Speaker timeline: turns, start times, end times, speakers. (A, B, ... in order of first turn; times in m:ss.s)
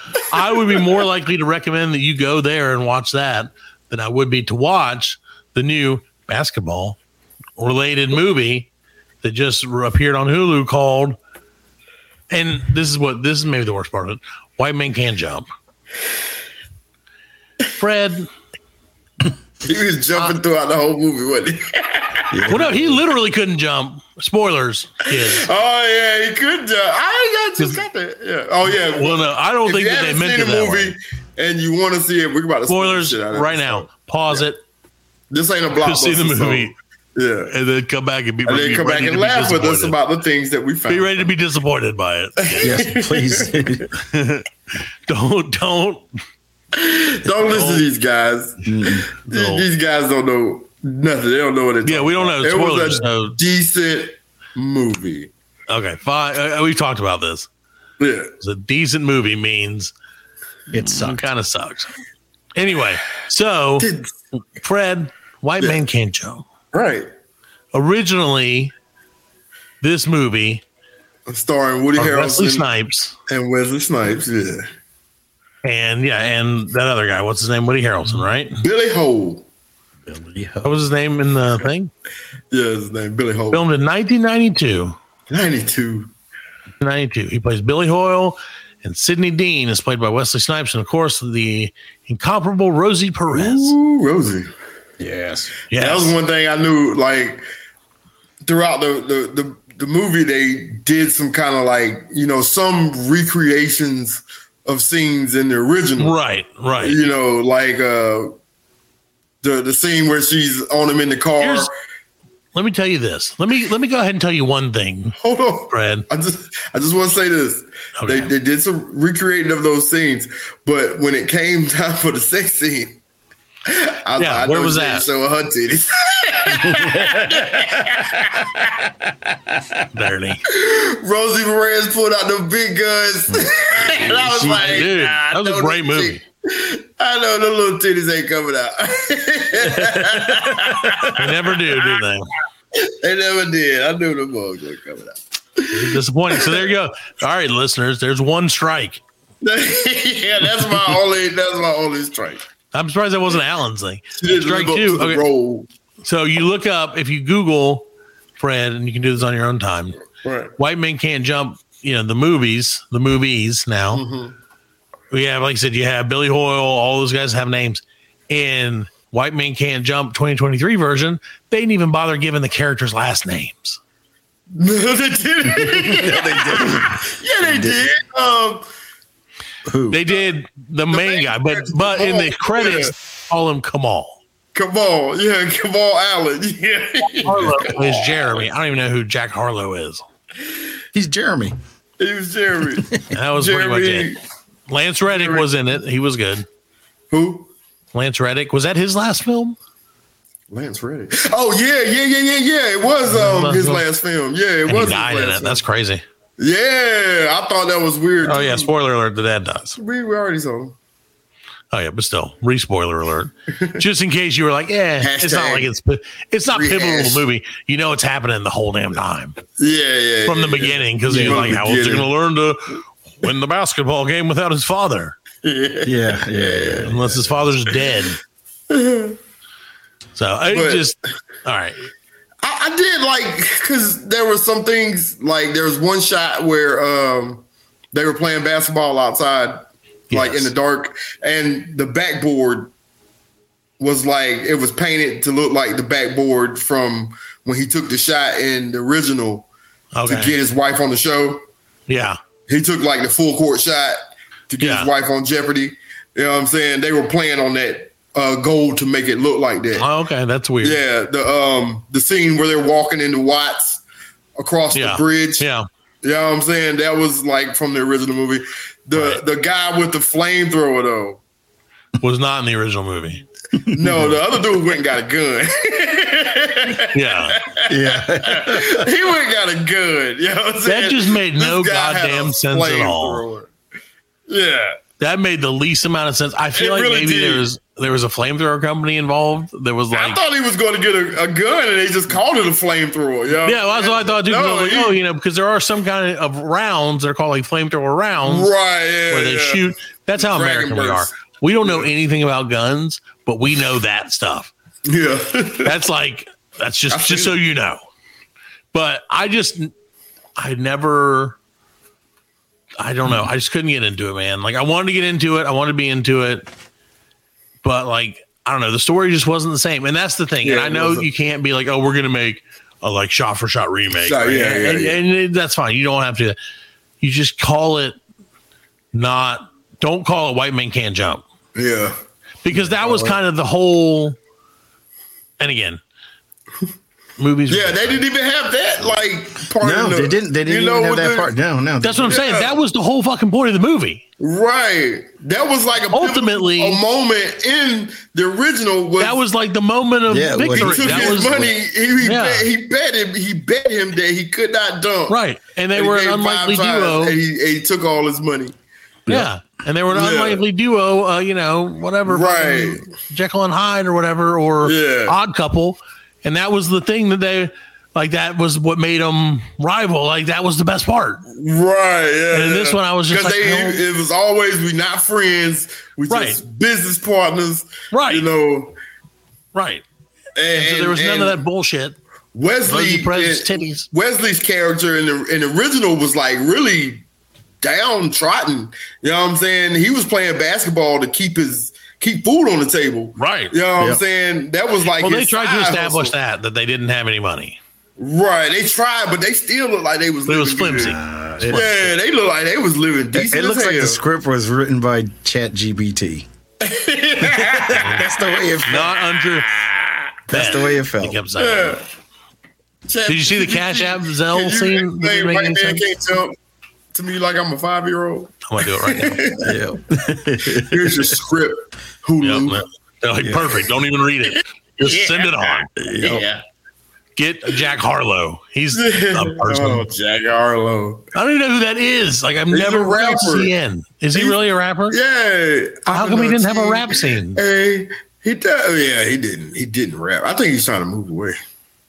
0:00.3-0:07.0 A
0:07.6-0:08.7 A
0:09.2-0:11.2 A
0:12.3-0:15.5 A
0:17.8-0:18.3 A
0:19.6-0:22.6 B
0:22.3-0:23.0 C
0:22.5-0:25.5 A
0:25.1-0:34.4 B
0:28.7-0:30.9 A
0:32.7-0:34.6 A
0:35.3-0:37.5 B
0:35.8-0:36.7 A
0:37.5-0:40.0 A
0:38.4-0:41.3 B
0:40.9-0:42.9 A
0:42.4-0:43.5 B
0:42.6-0:43.9 C
0:44.0-0:44.4 A
0:45.1-0:46.0 A
0:46.7-0:48.6 B
0:47.5-0:47.8 A
0:48.6-0:49.1 C
0:49.3-0:49.6 A
0:49.3-0:55.3 B
0:51.8-0:53.4 A
0:55.7-0:57.5 A
0:58.0-0:58.3 B
0:58.4-0:59.9 A
1:00.7-1:01.3 C
1:00.8-1:01.9 A
1:02.6-1:03.9 A
1:03.8-1:04.1 B
1:04.6-1:06.4 A
1:06.7-1:07.1 B
1:07.7-1:08.7 A
1:09.8-1:10.6 A
1:11.3-1:12.7 B
1:12.0-1:13.1 A
1:13.3-1:14.7 B
1:15.6-1:18.6 A
1:18.6-1:19.4 B
1:20.0-1:20.7 C
1:20.6-1:21.9 A
1:22.5-1:23.7 B
1:23.5-1:25.0 A
1:25.3-1:26.1 B
1:26.8-1:33.7 A
1:33.3-1:34.5 B
1:35.0-1:35.5 C
1:35.7-1:36.1 A
1:35.7-1:37.4 B
1:38.4-1:46.2 B
1:46.0-1:47.0 A
1:46.8-1:48.3 B
1:49.4-1:51.7 B
1:51.4-1:51.7 A
1:52.5-1:55.2 A
1:55.2-2:03.0 B
1:55.7-1:56.0 A
1:58.0-1:58.3 A
2:03.7-2:08.9 B
2:04.2-2:05.1 A
2:06.6-2:07.3 C
2:09.9-2:10.4 A
2:10.5-2:21.8 B
2:13.3-2:14.8 C
2:14.3-2:16.2 A
2:19.8-2:20.8 C
2:21.2-2:22.3 A
2:22.7-2:26.7 B
2:25.7-2:29.0 A
2:29.4-2:32.4 B
2:32.7-2:35.2 A
2:34.2-2:35.7 B
2:36.0-2:37.8 A
2:38.4-2:40.0 A
2:40.2-2:40.5 B
2:40.6-2:44.0 A
2:43.9-2:44.3 B
2:45.1-2:53.8 A
2:54.5-2:58.6 B
2:55.5-2:57.9 C
2:59.7-3:00.0 C
2:59.9-3:04.2 A
3:00.9-3:02.9 B
3:04.5-3:08.3 B
3:07.2-3:10.0 A
3:10.9-3:11.6 C
3:12.0-3:14.2 B
3:13.1-3:14.1 A
3:14.7-3:16.4 A
3:15.1-3:15.5 B
3:17.1-3:17.5 B
3:17.9-3:19.6 A
3:20.5-3:25.6 B
3:23.1-3:23.9 A
3:24.6-3:26.0 A
3:26.4-3:28.7 B
3:28.2-3:29.8 A
3:29.8-3:30.8 B
3:31.7-3:39.4 A
3:33.6-3:33.8 B
3:35.0-3:35.7 B
3:36.5-3:37.2 B
3:39.6-3:42.1 B
3:40.2-3:45.2 A
3:41.1-3:41.5 C
3:45.4-3:46.9 B
3:45.8-3:47.4 C
3:46.8-3:48.2 A
3:48.7-3:49.2 B
3:50.2-3:51.9 A
3:50.5-3:50.9 B
3:52.4-4:02.7 B
4:00.1-4:00.5 A
4:03.8-4:09.5 B
4:09.9-4:10.3 A
4:10.0-4:11.4 B
4:11.9-4:12.2 A
4:12.5-4:14.0 B
4:14.5-4:19.8 B
4:14.6-4:14.9 A
4:19.8-4:20.8 A
4:20.6-4:23.8 B
4:24.4-4:25.4 B
4:24.7-4:25.6 A
4:26.0-4:31.2 B
4:28.9-4:29.2 A
4:32.0-4:33.2 A
4:33.6-4:34.3 C
4:33.7-4:43.5 B
4:36.9-4:37.4 A
4:37.7-4:38.9 C
4:40.6-4:43.2 A
4:44.3-4:44.8 B
4:45.0-4:50.2 A
4:46.6-4:47.4 B
4:49.9-4:55.0 B
4:53.4-4:58.5 A
4:58.2-5:01.9 B
4:59.1-5:04.5 A
5:04.8-5:05.7 B
5:05.6-5:07.8 A
5:06.9-5:07.4 B
5:08.7-5:09.7 A
5:10.4-5:11.4 A
5:12.8-5:16.5 A
5:17.6-5:26.4 A
5:20.4-5:21.1 B
5:24.0-5:25.0 B
5:27.0-5:28.0 A
5:28.9-5:31.2 A
5:31.6-5:32.0 B
5:32.4-5:34.2 A
5:32.8-5:33.2 B
5:35.4-5:35.8 A
5:37.2-5:38.0 A
5:37.5-5:41.3 B
5:39.6-5:42.2 C
5:41.8-5:44.0 A
5:42.0-5:42.5 B
5:44.2-5:49.2 B
5:45.9-5:46.8 A
5:49.0-5:51.5 A
5:50.1-5:51.5 C
5:50.4-5:55.2 B
5:52.0-5:52.5 A
5:55.1-5:57.2 A
5:55.7-5:58.5 B
5:59.1-6:11.2 A
5:59.9-6:00.4 B
6:02.1-6:02.9 B
6:04.6-6:05.2 B
6:11.3-6:18.7 B
6:12.3-6:13.8 A
6:16.1-6:16.4 A
6:17.9-6:18.3 A
6:19.5-6:19.8 A
6:20.4-6:21.4 B
6:20.5-6:22.0 A
6:22.3-6:27.0 B
6:22.7-6:23.9 A
6:27.6-6:36.1 B
6:33.2-6:33.5 A
6:35.0-6:37.6 A
6:38.0-6:44.0 B
6:40.3-6:41.8 A
6:40.7-6:41.9 C
6:43.1-6:46.3 C
6:46.6-6:48.0 B
6:47.2-6:48.9 C
6:47.8-6:48.0 A
6:48.6-6:49.5 A
6:49.5-6:50.0 B
6:50.3-6:51.2 C
6:50.3-6:51.8 A
6:51.4-6:51.8 B
6:52.9-6:56.3 B
6:53.1-6:55.8 A
6:56.9-6:59.5 B
6:58.4-6:59.2 A
6:59.4-7:01.1 C
7:00.6-7:02.6 B
7:02.2-7:05.7 A
7:04.8-7:06.4 B
7:05.8-7:06.2 C
7:07.2-7:09.9 A
7:08.7-7:11.0 B
7:11.1-7:15.0 A
7:12.5-7:13.5 B
7:14.1-7:21.4 B
7:15.9-7:17.4 A